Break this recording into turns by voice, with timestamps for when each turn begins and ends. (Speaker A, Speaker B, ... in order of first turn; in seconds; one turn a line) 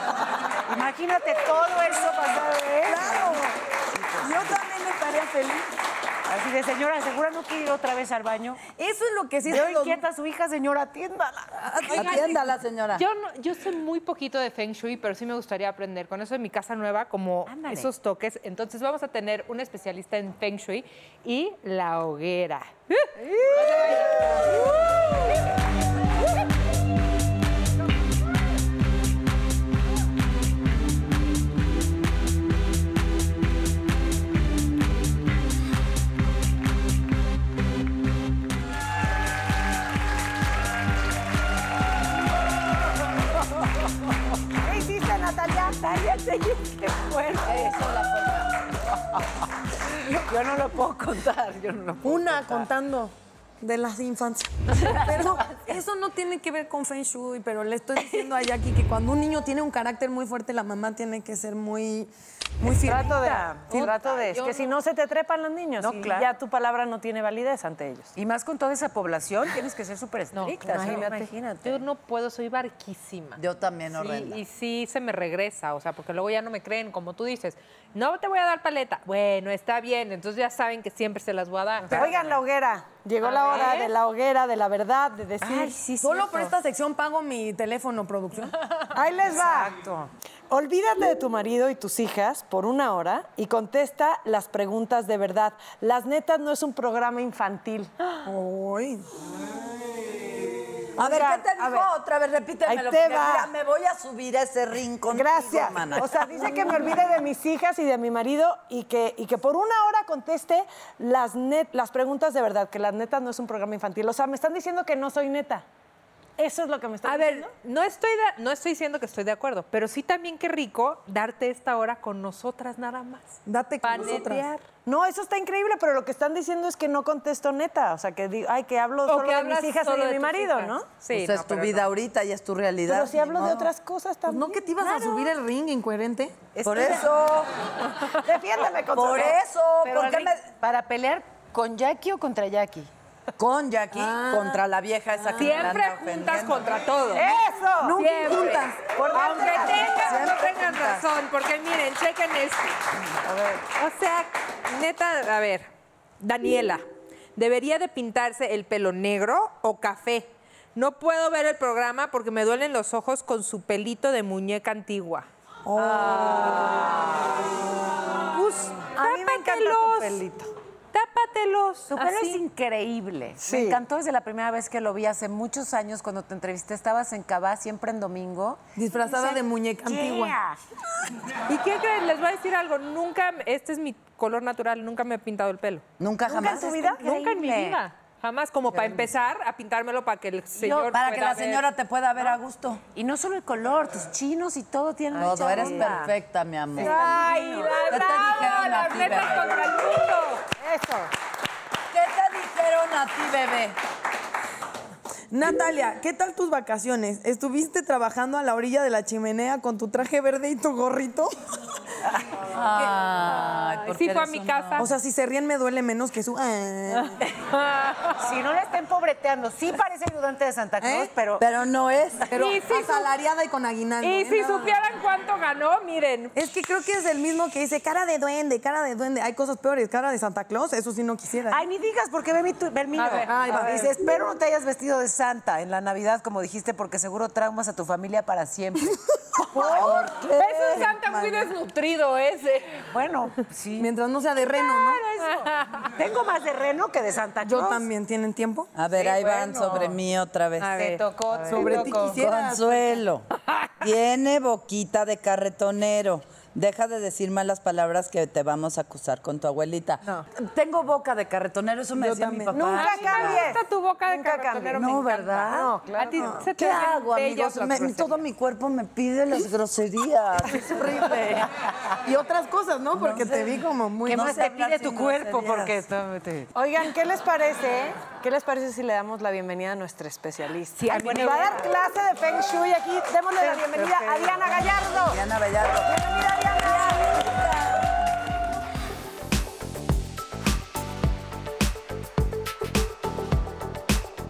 Speaker A: 0.7-3.3
Speaker B: 2.8-3.6
Speaker A: 3.9-4.6
Speaker B: 4.2-5.7
Speaker A: 6.3-8.6
Speaker B: 8.8-10.0
Speaker A: 9.5-11.9
Speaker B: 11.6-12.3
Speaker C: 11.9-12.4
Speaker D: 11.9-13.1
Speaker C: 13.0-24.7
Speaker A: 17.5-17.9
Speaker E: 44.6-47.5
Speaker A: 46.6-48.1
Speaker D: 47.6-48.5
Speaker A: 50.0-52.7
Speaker B: 52.0-63.2
Speaker A: 54.8-55.6
Speaker A: 62.8-63.9
Speaker E: 62.8-68.1
Speaker C: 63.7-64.7
Speaker A: 65.8-66.3
Speaker A: 68.2-71.8
Speaker C: 70.3-73.4
Speaker E: 70.7-71.3
Speaker D: 73.4-74.4
Speaker C: 74.0-82.1
Speaker E: 81.9-85.7
Speaker C: 83.2-83.9
Speaker A: 85.4-86.5
Speaker B: 86.0-88.6
Speaker E: 88.9-89.8
Speaker A: 89.3-90.1
Speaker E: 90.5-97.9
Speaker B: 98.2-99.0
Speaker D: 101.0-106.6
Speaker E: 101.0-101.9
Speaker E: 102.7-103.5
Speaker E: 105.1-115.6
Speaker E: 116.4-117.5
Speaker C: 117.0-124.6
Speaker B: 123.5-124.5
Speaker E: 124.9-130.9
Speaker C: 129.1-131.8
Speaker D: 131.1-133.7
Speaker E: 132.9-135.1
Speaker B: 134.3-136.4
Speaker A: 136.6-137.1
Speaker D: 136.6-137.5
Speaker E: 138.2-139.4
Speaker D: 138.9-140.4
Speaker A: 139.8-142.9
Speaker D: 143.4-146.8
Speaker B: 144.0-144.6
Speaker C: 145.4-147.3
Speaker E: 147.1-148.0
Speaker B: 147.8-148.8
Speaker C: 147.9-152.8
Speaker E: 148.9-150.3
Speaker B: 150.0-151.0
Speaker E: 153.2-153.6
Speaker C: 153.7-156.8
Speaker C: 157.4-165.3
Speaker B: 165.7-166.6
Speaker A: 165.8-167.1
Speaker C: 168.3-170.2
Speaker E: 168.9-170.5
Speaker C: 170.9-172.4
Speaker A: 171.9-180.6
Speaker B: 173.4-173.8
Speaker B: 178.8-180.4
Speaker C: 181.5-185.8
Speaker D: 186.0-186.9
Speaker E: 186.3-187.0
Speaker A: 186.3-187.8
Speaker C: 187.0-191.6
Speaker A: 190.5-190.9
Speaker D: 190.9-192.8
Speaker A: 192.9-196.1
Speaker D: 195.1-197.2
Speaker A: 196.8-198.1
Speaker C: 196.8-200.6
Speaker D: 197.9-199.8
Speaker E: 200.6-201.1
Speaker D: 201.9-203.8
Speaker B: 205.3-211.3
Speaker D: 212.4-214.9
Speaker C: 213.4-214.9
Speaker B: 214.8-217.2
Speaker C: 217.5-218.2
Speaker A: 218.2-221.5
Speaker B: 220.8-221.1
Speaker D: 221.4-222.3
Speaker B: 222.3-224.8
Speaker C: 222.3-223.1
Speaker C: 224.0-226.3
Speaker B: 226.3-231.6
Speaker A: 231.5-239.9
Speaker C: 233.0-233.5
Speaker B: 233.2-234.0
Speaker B: 239.5-240.0
Speaker D: 239.5-241.1
Speaker C: 239.6-242.9
Speaker B: 240.8-241.3
Speaker A: 242.9-243.9
Speaker B: 243.8-245.0
Speaker A: 245.1-247.8
Speaker C: 245.2-245.8
Speaker B: 247.4-248.7
Speaker D: 248.8-251.0
Speaker A: 248.9-250.0
Speaker C: 250.6-251.0
Speaker A: 250.8-252.2
Speaker B: 251.5-252.9
Speaker D: 251.5-253.3
Speaker D: 253.8-263.5
Speaker B: 262.0-262.8
Speaker E: 262.5-266.4
Speaker C: 262.7-268.1
Speaker D: 264.7-265.8
Speaker D: 266.6-271.5
Speaker B: 272.0-274.3
Speaker D: 272.9-275.8
Speaker A: 274.1-276.5
Speaker E: 276.5-285.2
Speaker C: 280.8-281.7
Speaker A: 280.9-281.6
Speaker C: 283.9-284.3
Speaker D: 285.0-285.9
Speaker E: 285.8-287.1
Speaker D: 286.5-288.0